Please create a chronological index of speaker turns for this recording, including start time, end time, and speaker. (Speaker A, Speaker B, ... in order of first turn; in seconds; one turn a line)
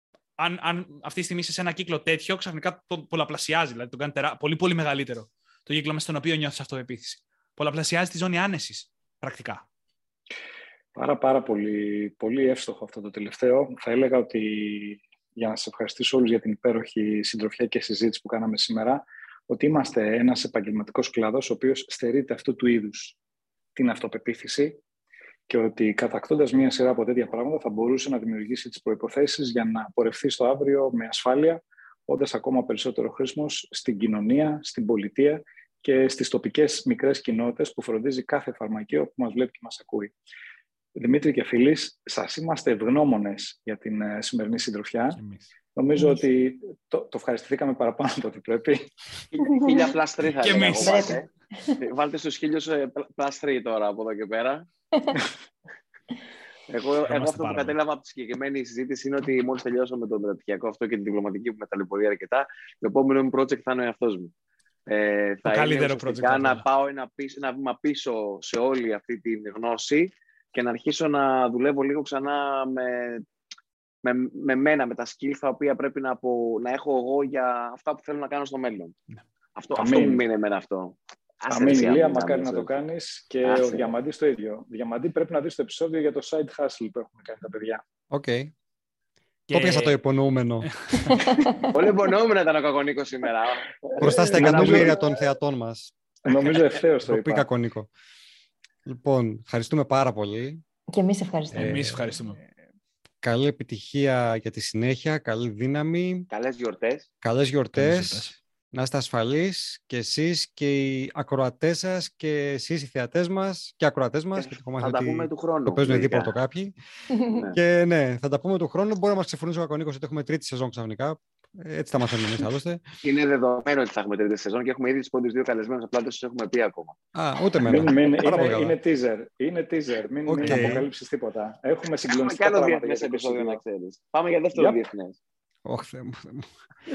Speaker A: 0.4-9.7
Speaker B: 10.9-23.2
Speaker B: 23.8-24.8
Speaker B: 25.5-40.1
Speaker B: 41.0-45.2
Speaker A: 45.1-45.5
Speaker B: 45.8-48.9
Speaker C: 46.0-46.2
Speaker D: 49.3-51.3
Speaker C: 49.5-49.8
Speaker A: 50.4-51.2
Speaker C: 50.8-51.8
Speaker D: 51.8-54.7
Speaker D: 56.7-64.3
Speaker A: 57.0-57.8
Speaker D: 64.9-73.2
Speaker A: 65.5-66.7
Speaker D: 74.0-79.0
Speaker D: 79.6-82.8
Speaker B: 79.7-80.2
Speaker B: 81.5-87.8
Speaker D: 83.4-83.9
Speaker E: 88.1-88.5
Speaker A: 89.5-90.0
Speaker E: 89.5-90.7
Speaker A: 90.7-91.2
Speaker C: 91.0-91.7
Speaker D: 91.7-95.0
Speaker B: 94.0-95.0
Speaker E: 94.0-95.9
Speaker B: 96.3-97.5
Speaker E: 97.1-97.9
Speaker E: 98.9-100.6
Speaker C: 100.9-101.9
Speaker A: 101.5-102.4
Speaker E: 101.6-102.0
Speaker E: 103.2-106.3
Speaker D: 106.3-107.1
Speaker E: 107.2-116.7
Speaker A: 107.7-108.4
Speaker D: 114.4-116.3
Speaker D: 117.3-117.6
Speaker E: 117.5-122.8
Speaker D: 123.0-127.0
Speaker E: 127.2-128.8
Speaker B: 127.7-133.6
Speaker E: 130.3-130.9
Speaker D: 132.1-135.2
Speaker B: 134.5-134.8
Speaker E: 135.7-136.5